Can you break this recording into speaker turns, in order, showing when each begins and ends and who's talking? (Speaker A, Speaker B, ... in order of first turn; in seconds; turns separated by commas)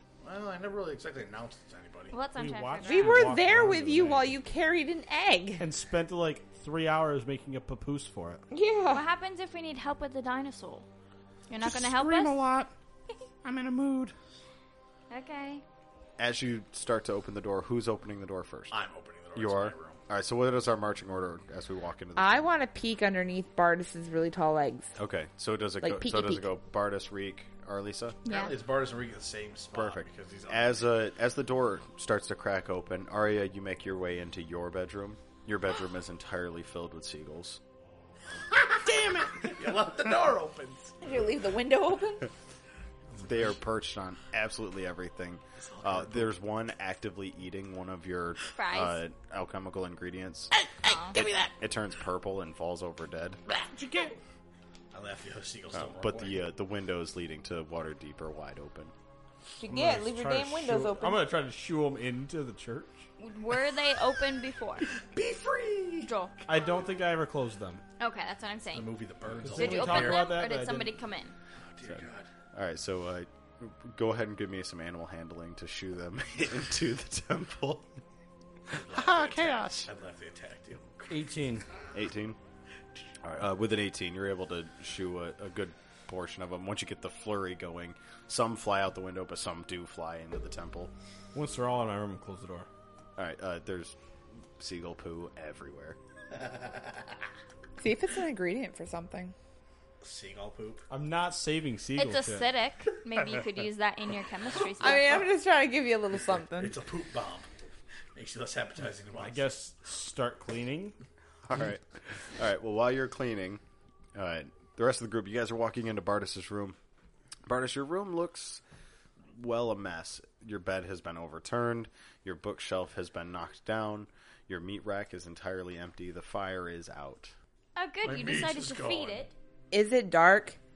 Speaker A: 0.2-2.1, Speaker B: 2.1-3.3, Speaker C: 2.3-4.4, Speaker D: 2.8-5.6, Speaker C: 5.6-8.4, Speaker D: 8.5-9.0, Speaker B: 8.9-10.9, Speaker B: 11.5-12.4, Speaker C: 11.6-12.7, Speaker C: 13.4-14.1, Speaker B: 15.1-15.6, Speaker E: 16.2-18.8, Speaker A: 18.7-20.0, Speaker E: 19.3-22.4, Speaker D: 22.1-24.9, Speaker E: 24.9-28.2, Speaker D: 25.8-26.5, Speaker B: 28.2-28.5, Speaker A: 28.3-31.0, Speaker E: 29.7-37.6, Speaker C: 38.7-39.8, Speaker A: 39.4-40.9, Speaker D: 41.0-42.3, Speaker E: 43.2-50.5, Speaker A: 45.6-46.3, Speaker B: 48.5-49.0, Speaker C: 50.8-51.5, Speaker B: 50.8-51.1, Speaker E: 51.1-53.4, Speaker C: 53.5-54.2, Speaker A: 54.9-56.5, Speaker E: 55.7-58.9, Speaker D: 59.6-61.3, Speaker C: 59.6-63.1, Speaker B: 63.2-64.8, Speaker A: 64.9-66.1, Speaker B: 66.0-66.4, Speaker C: 66.5-67.8, Speaker B: 68.0-68.9, Speaker A: 68.7-70.2, Speaker C: 69.4-71.0, Speaker B: 69.5-71.3, Speaker A: 71.7-72.3, Speaker E: 72.5-78.0, Speaker E: 78.7-79.9, Speaker A: 78.8-81.3, Speaker C: 81.1-81.7, Speaker E: 81.9-82.4, Speaker E: 83.2-90.9, Speaker C: 91.3-92.7, Speaker E: 93.2-94.0, Speaker E: 94.6-96.0, Speaker A: 96.3-97.1, Speaker D: 97.8-99.3, Speaker A: 100.0-100.8, Speaker C: 100.9-102.5, Speaker B: 101.9-105.2, Speaker D: 104.8-106.8, Speaker A: 106.5-107.5, Speaker A: 108.1-109.5, Speaker C: 109.2-111.0, Speaker E: 111.5-113.6, Speaker E: 114.1-116.8, Speaker E: 117.5-118.6, Speaker E: 119.3-127.3, Speaker B: 127.8-129.3, Speaker A: 128.0-129.3, Speaker D: 129.7-130.6